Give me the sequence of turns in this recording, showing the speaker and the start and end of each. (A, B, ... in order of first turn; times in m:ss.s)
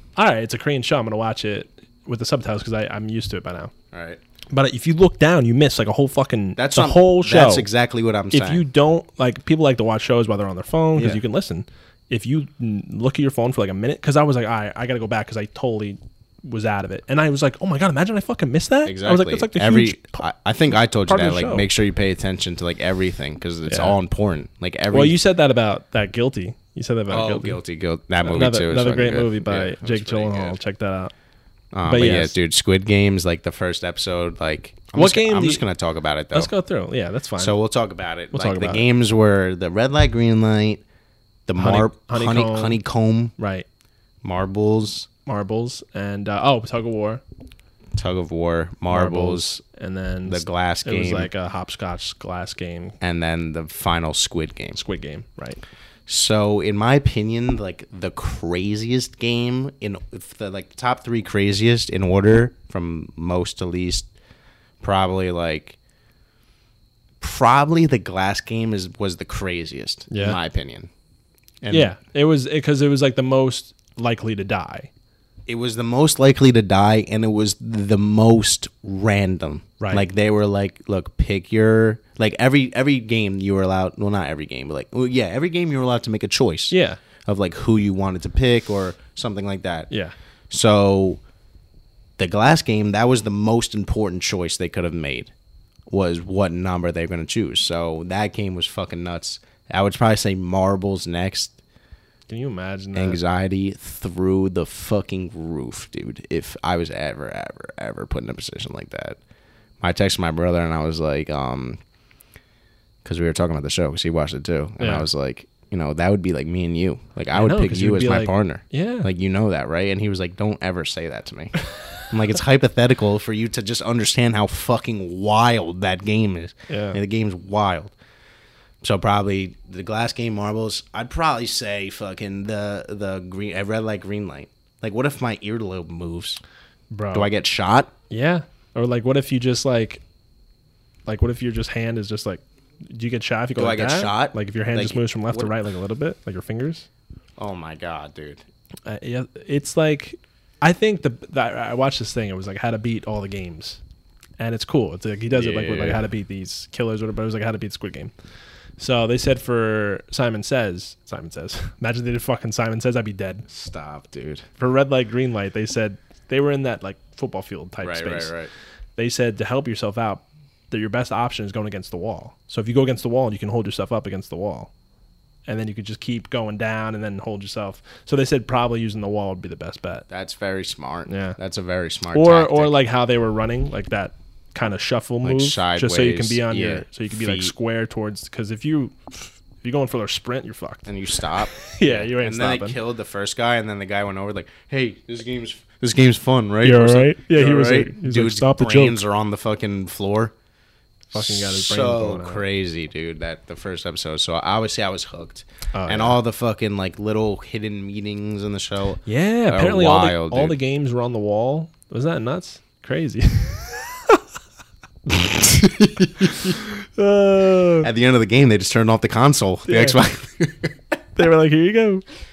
0:00.2-0:03.7 A
0:03.9-0:04.2 B
0:04.5-0:07.7 A
0:06.6-0:08.6 B
0:08.3-0:20.2 A
0:11.0-0:11.2 B
0:18.8-0:25.2 B
0:21.0-0:21.7 A
0:23.7-0:24.0 A
0:24.9-0:27.6 A
0:27.1-0:30.6 B
0:28.2-0:31.1 A
0:31.7-0:36.5 B
0:31.8-0:32.4 A
0:34.9-0:35.6 A
0:36.3-0:37.6 A
0:37.4-0:40.8 B
0:38.3-0:38.8 A
0:41.5-0:43.3 B
0:41.6-0:42.8 A
0:43.4-0:43.6 A
0:44.2-0:45.1 B
0:45.2-0:47.2 A
0:48.0-0:49.5 B
0:48.9-0:53.0 A
0:50.3-0:51.3 B
0:53.0-0:54.8 B
0:54.7-0:55.6 A
0:56.1-1:04.1 B
1:04.8-1:05.8 B
1:07.2-1:10.9 B
1:10.1-1:10.4 A
1:11.6-1:11.9 B
1:11.7-1:14.9 A
1:15.5-1:26.7 B
1:19.8-1:20.1 A
1:26.7-1:27.0 A
1:27.2-1:29.9 B
1:30.5-1:31.2 B
1:32.2-1:35.3 B
1:35.9-1:41.6 B
1:42.3-1:43.2 A
1:42.9-1:49.2 B
1:49.8-1:51.8 B
1:53.0-2:07.9 B
1:54.8-1:55.1 A
1:57.3-1:59.1 A
2:06.7-2:07.0 A
2:08.8-2:16.4 B
2:16.9-2:17.3 A
2:17.1-2:17.9 B
2:18.1-2:20.0 A
2:21.1-2:26.9 A
2:23.6-2:25.5 B
2:27.4-2:28.4 B
2:28.9-2:33.8 A
2:34.4-2:38.1 A
2:35.3-2:36.0 B
2:38.8-2:43.5 A
2:43.5-2:44.4 B
2:44.6-2:48.3 A
2:47.8-2:48.5 B
2:49.0-2:54.7 A
2:55.5-3:00.0 A
3:00.1-3:02.7 B
3:01.1-3:01.4 A
3:02.1-3:12.8 A
3:05.2-3:07.5 B
3:10.8-3:20.3 B
3:16.6-3:19.0 A
3:21.1-3:30.6 B
3:21.1-3:22.4 A
3:25.7-3:26.2 A
3:29.0-3:34.2 A
3:35.1-3:36.6 B
3:36.4-3:37.9 A
3:37.8-3:40.8 B
3:39.7-3:40.0 A
3:41.2-3:42.0 A